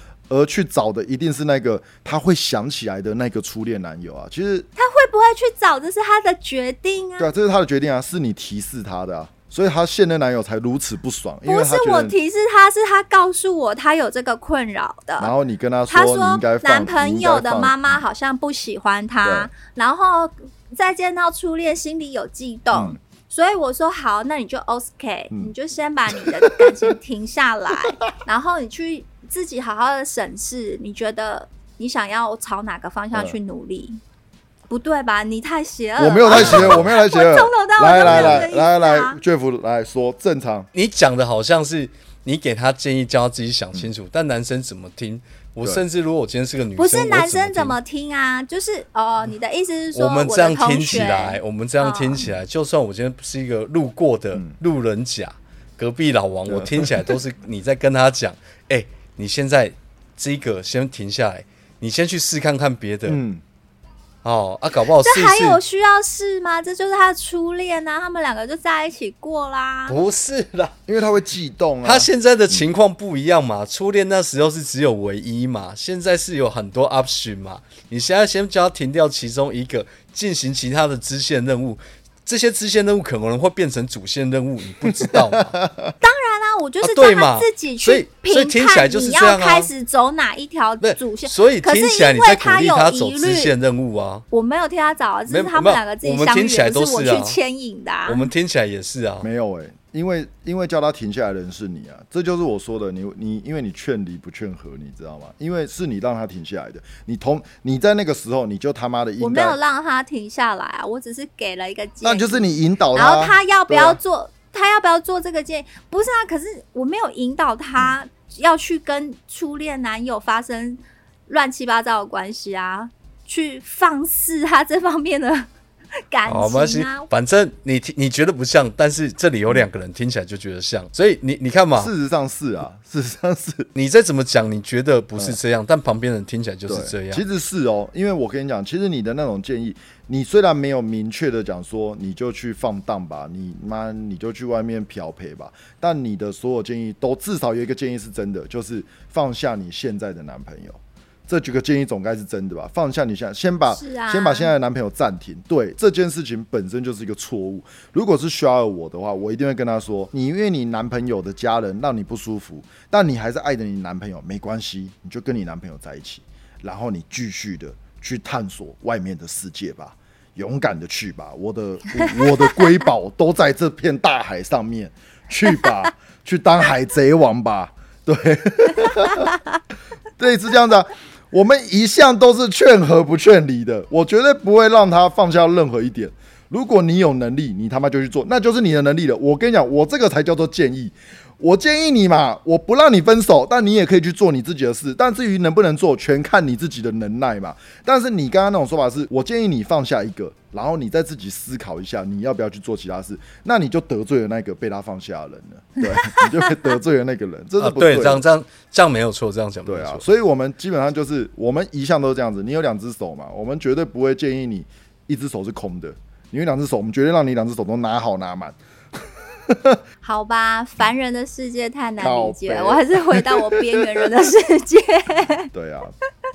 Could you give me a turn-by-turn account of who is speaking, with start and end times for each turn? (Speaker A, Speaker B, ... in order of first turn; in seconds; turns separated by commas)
Speaker A: 0.3-4.7, Speaker B: 4.8-7.3, Speaker A: 7.2-12.2, Speaker B: 11.4-15.3, Speaker A: 15.2-18.0, Speaker B: 15.9-34.0, Speaker A: 19.2-19.5, Speaker A: 22.7-23.0, Speaker A: 26.1-26.9, Speaker A: 27.8-28.1, Speaker B: 34.7-39.2, Speaker A: 36.0-40.7, Speaker C: 36.3-36.9, Speaker C: 38.0-38.5, Speaker C: 40.7-47.8, Speaker B: 46.8-52.2, Speaker C: 49.9-63.2, Speaker A: 50.9-51.2, Speaker A: 56.5-57.1, Speaker A: 63.1-63.4, Speaker C: 64.2-65.6, Speaker B: 65.0-70.0, Speaker C: 69.9-70.8, Speaker A: 70.9-72.7, Speaker C: 71.8-85.6, Speaker A: 84.8-85.9, Speaker B: 86.0-93.5, Speaker C: 86.8-89.7, Speaker C: 90.8-94.2, Speaker B: 94.3-98.3, Speaker C: 95.3-97.4, Speaker C: 98.0-99.3, Speaker A: 99.2-109.6, Speaker B: 109.2-125.5, Speaker A: 112.0-114.0, Speaker B: 126.1-127.1, Speaker C: 126.2-131.9, Speaker A: 131.8-133.7, Speaker C: 133.7-137.2, Speaker A: 136.7-179.3, Speaker B: 153.7-154.5, Speaker A: 180.2-208.2, Speaker C: 207.6-210.0, Speaker A: 209.7-218.6, Speaker A: 219.3-219.8, Speaker B: 220.0-225.5, Speaker A: 222.0-224.2, Speaker A: 225.5-225.9